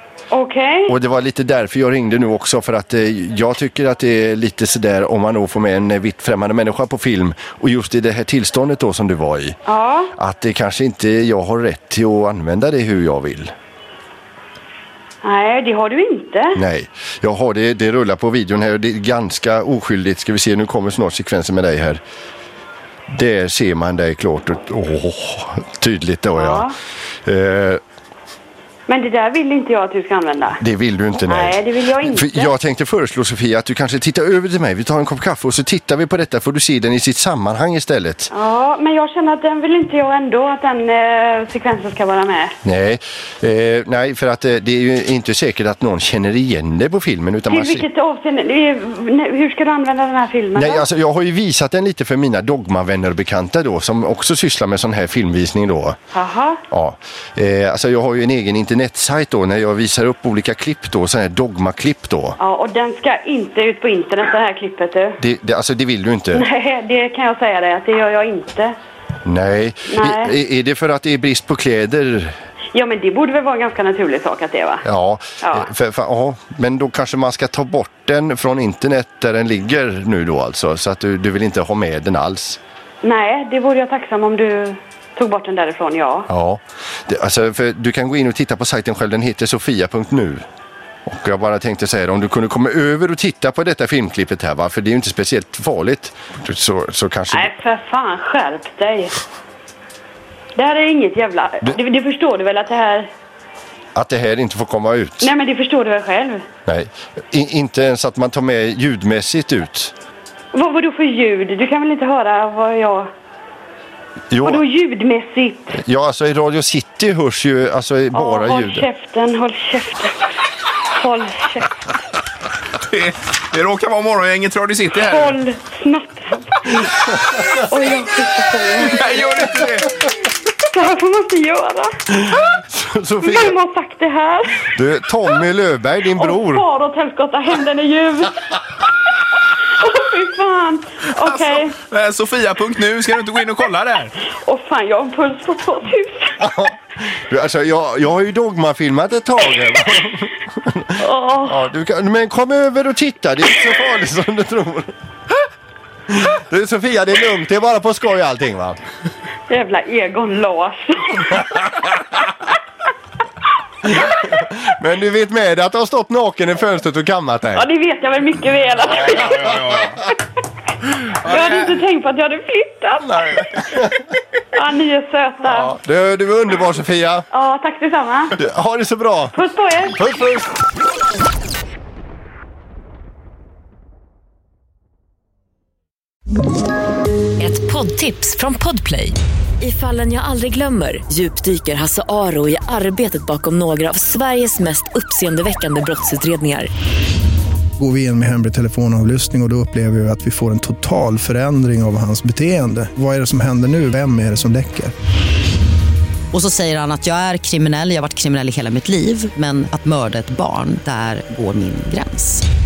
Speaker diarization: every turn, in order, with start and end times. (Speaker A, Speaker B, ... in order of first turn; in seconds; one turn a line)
Speaker A: 0.3-0.9
Speaker B: 0.9-9.6
Speaker A: 9.7-10.1
Speaker B: 10.2-13.5
Speaker A: 15.2-16.6
Speaker B: 16.5-22.0
Speaker B: 23.1-26.7
Speaker A: 26.3-26.7
Speaker B: 27.2-27.8
Speaker A: 28.9-30.6
Speaker B: 30.6-38.3
Speaker A: 31.2-32.5
Speaker A: 38.3-42.5
Speaker B: 42.6-47.9
Speaker A: 47.5-50.8
Speaker B: 50.5-56.0
Speaker A: 56.1-56.6
Speaker B: 56.7-62.4
Speaker A: 62.4-65.2
Speaker B: 65.2-66.5
Speaker A: 66.3-68.7
Speaker B: 69.2-72.3
Speaker A: 69.9-70.3
Speaker A: 72.7-74.8
Speaker B: 74.8-82.6
Speaker A: 75.4-75.7
Speaker A: 83.0-86.3
Speaker B: 86.3-90.4
Speaker B: 91.0-97.5
Speaker A: 97.3-99.1
Speaker A: 100.5-103.1
Speaker B: 104.0-105.3
Speaker A: 105.2-106.4
Speaker B: 106.7-109.9
Speaker A: 110.5-113.1
Speaker B: 114.3-114.6
Speaker A: 114.4-115.8
Speaker B: 115.7-118.9
Speaker A: 118.1-120.2
Speaker A: 120.9-121.8
Speaker C: 122.9-125.3
Speaker A: 125.0-126.4
Speaker A: 127.5-129.0
Speaker C: 128.9-129.8
Speaker A: 130.6-132.0
Speaker B: 132.2-133.6
Speaker A: 133.2-134.7
Speaker B: 134.7-136.6
Speaker A: 136.2-138.4
Speaker A: 139.6-141.7
Speaker C: 141.2-144.1
Speaker A: 144.3-146.3
Speaker B: 146.4-154.9
Speaker A: 151.0-151.6
Speaker B: 156.1-158.8
Speaker A: 159.5-161.5
Speaker B: 163.8-167.7
Speaker A: 167.5-169.6
Speaker A: 171.2-173.6
Speaker B: 173.6-173.9
Speaker A: 174.5-175.7
Speaker B: 175.4-177.3
Speaker A: 177.3-178.3
Speaker B: 178.4-179.4
Speaker A: 179.3-180.0
Speaker B: 179.9-180.6
Speaker D: 187.4-196.7
Speaker E: 197.8-204.9
Speaker F: 206.3-212.4